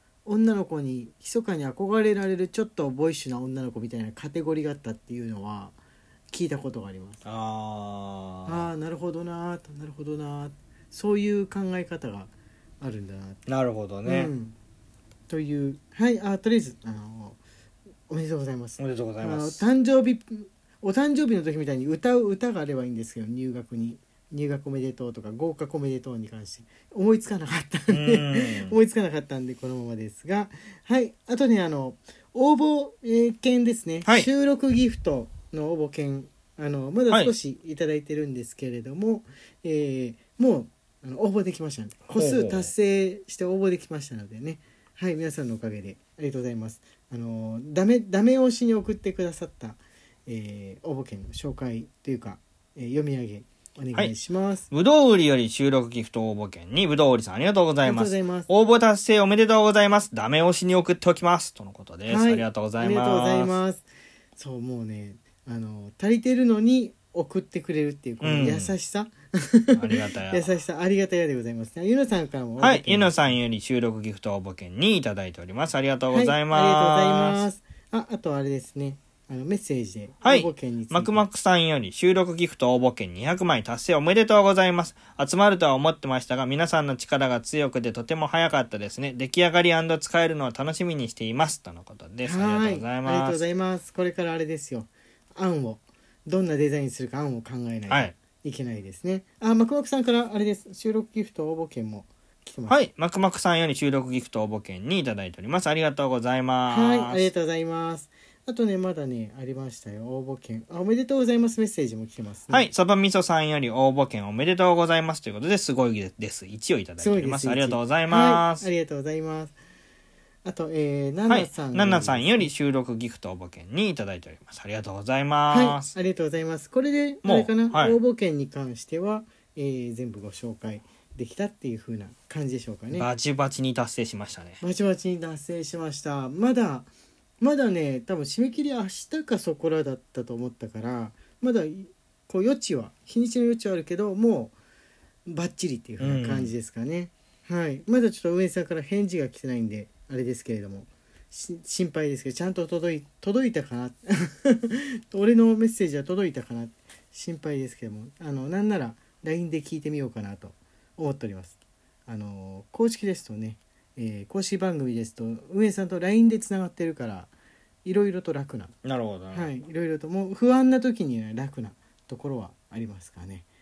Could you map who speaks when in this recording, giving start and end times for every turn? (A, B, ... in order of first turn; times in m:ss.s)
0:00.2-0:05.7 A
0:06.3-0:07.2 A
0:07.2-0:08.7 B
0:08.4-0:13.4 A
0:13.4-0:14.3 B
0:14.0-0:14.5 A
0:15.3-0:17.4 A
0:18.1-0:54.7 A
0:18.8-0:19.6 B
0:27.9-0:28.8 B
0:42.1-0:42.7 B
0:54.7-1:03.5 B
0:57.8-0:58.5 A
1:02.1-1:13.4 A
1:08.2-1:08.7 B
1:09.7-1:10.4 B
1:12.6-1:17.4 B
1:16.1-1:21.2 A
1:20.2-1:33.4 B
1:32.2-1:42.8 A
1:37.9-1:38.1 B
1:42.7-1:47.3 B
1:46.7-1:52.6 A
1:52.5-1:58.6 B
1:57.0-1:59.6 A
2:00.4-2:02.5 A
2:01.3-2:05.9 B
2:05.5-2:13.1 A
2:07.2-2:08.0 B
2:12.9-2:14.6 B
2:14.6-2:16.9 A
2:17.4-2:24.5 A
2:25.3-2:41.6 A
2:26.0-2:26.5 B
2:42.1-2:47.3 A
2:47.8-2:48.7 A
2:48.8-2:49.5 B
2:49.3-2:53.4 A